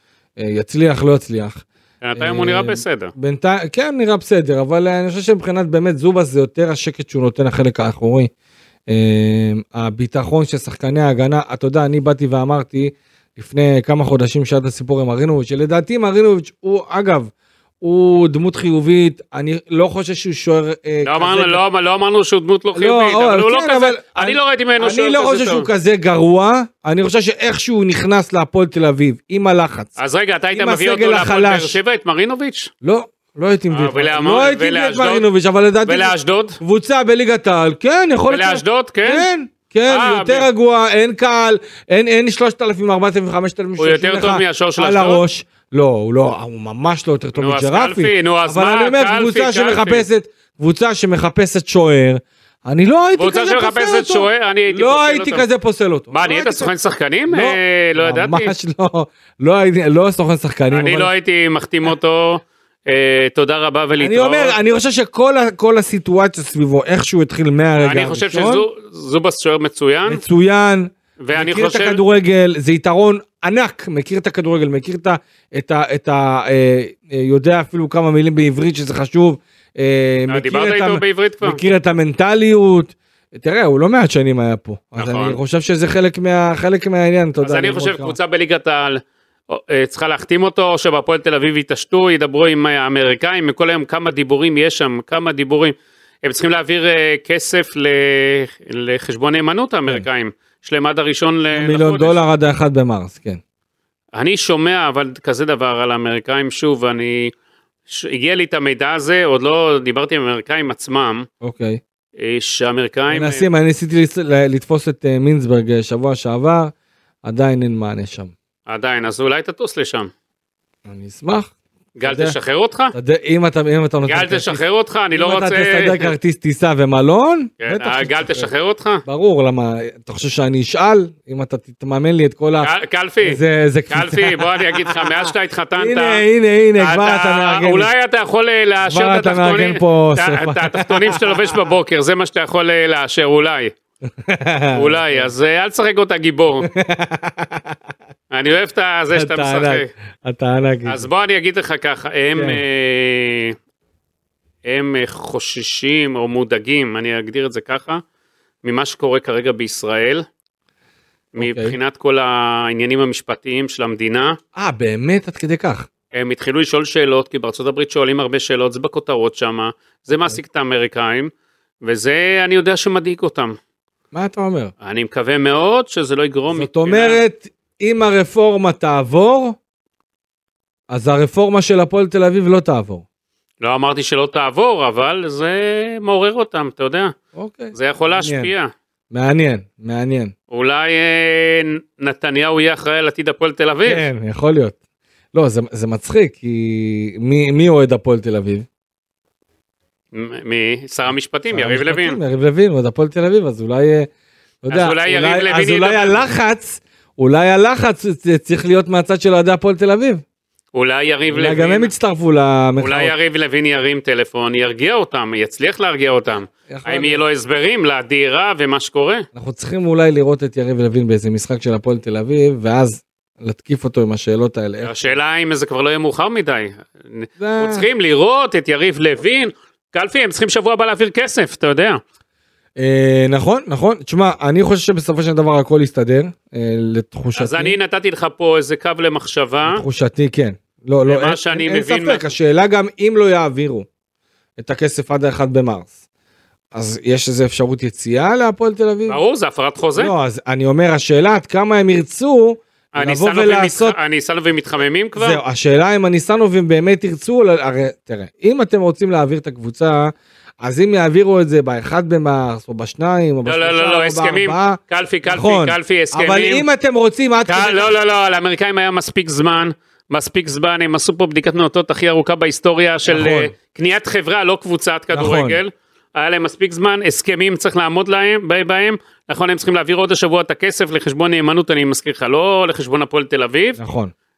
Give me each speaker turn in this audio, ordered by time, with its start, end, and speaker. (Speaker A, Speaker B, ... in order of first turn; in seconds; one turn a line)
Speaker A: 0.4-1.6
Speaker B: 2.0-3.1
Speaker A: 2.2-8.3
Speaker A: 8.9-21.6
Speaker B: 21.0-25.7
Speaker A: 22.8-30.0
Speaker B: 30.0-32.7
Speaker A: 30.5-31.8
Speaker A: 32.8-56.7
Speaker B: 33.7-35.2
Speaker B: 35.8-36.6
Speaker B: 38.3-39.3
Speaker B: 39.9-40.5
Speaker B: 43.8-45.2
Speaker B: 47.4-50.1
Speaker B: 53.2-55.5
Speaker B: 56.1-58.5
Speaker A: 57.3-61.1
Speaker B: 60.7-64.6
Speaker A: 64.0-68.7
Speaker B: 67.8-70.2
Speaker A: 70.1-88.2
Speaker B: 71.2-72.0
Speaker B: 80.3-81.6
Speaker B: 85.0-85.4
Speaker B: 87.4-102.2
Speaker A: 101.5-103.4
Speaker B: 104.1-107.3
Speaker B: 107.9-111.3
Speaker A: 111.4-111.8
Speaker B: 112.2-113.5
Speaker A: 113.1-116.7
Speaker A: 117.2-118.3
Speaker B: 118.7-120.1
Speaker A: 120.9-122.3
Speaker B: 122.0-122.9
Speaker A: 122.9-124.6
Speaker B: 124.1-126.1
Speaker A: 125.1-128.5
Speaker B: 127.6-129.0
Speaker A: 129.1-132.7
Speaker B: 132.6-133.4
Speaker A: 133.2-137.9
Speaker B: 133.9-136.2
Speaker B: 136.8-143.7
Speaker A: 138.8-141.6
Speaker A: 144.1-145.3
Speaker B: 144.7-146.7
Speaker A: 146.7-147.8
Speaker B: 148.3-149.9
Speaker A: 149.1-151.1
Speaker B: 150.9-153.6
Speaker A: 152.4-152.6
Speaker B: 154.7-158.0
Speaker B: 158.6-160.2
Speaker B: 161.4-164.4
Speaker A: 161.4-161.8
Speaker A: 164.6-165.9
Speaker B: 166.2-171.3
Speaker B: 171.8-173.6
Speaker A: 174.1-174.7
Speaker B: 174.8-177.2
Speaker A: 176.5-179.6
Speaker A: 180.9-183.0
Speaker B: 183.6-187.2
Speaker A: 187.3-188.5
Speaker B: 187.7-188.7
Speaker A: 189.1-190.3
Speaker B: 190.5-194.1
Speaker A: 193.9-194.8
Speaker A: 195.3-198.7
Speaker B: 200.1-202.2
Speaker A: 201.5-204.1
Speaker A: 204.6-210.2
Speaker B: 204.7-206.2
Speaker B: 210.7-211.9
Speaker A: 211.3-213.1
Speaker B: 212.8-219.2
Speaker A: 216.7-217.2
Speaker A: 219.3-225.1
Speaker B: 224.8-232.0
Speaker A: 227.4-227.9
Speaker A: 232.8-237.8
Speaker B: 237.4-239.8
Speaker A: 239.7-243.9
Speaker B: 241.1-242.2
Speaker A: 244.6-245.9
Speaker A: 246.7-249.2
Speaker B: 249.1-250.1
Speaker A: 249.9-254.0
Speaker B: 252.9-255.4
Speaker A: 255.2-267.9
Speaker B: 263.4-266.6
Speaker B: 267.5-283.8
Speaker A: 273.1-273.5
Speaker A: 275.1-275.6
Speaker A: 283.8-284.1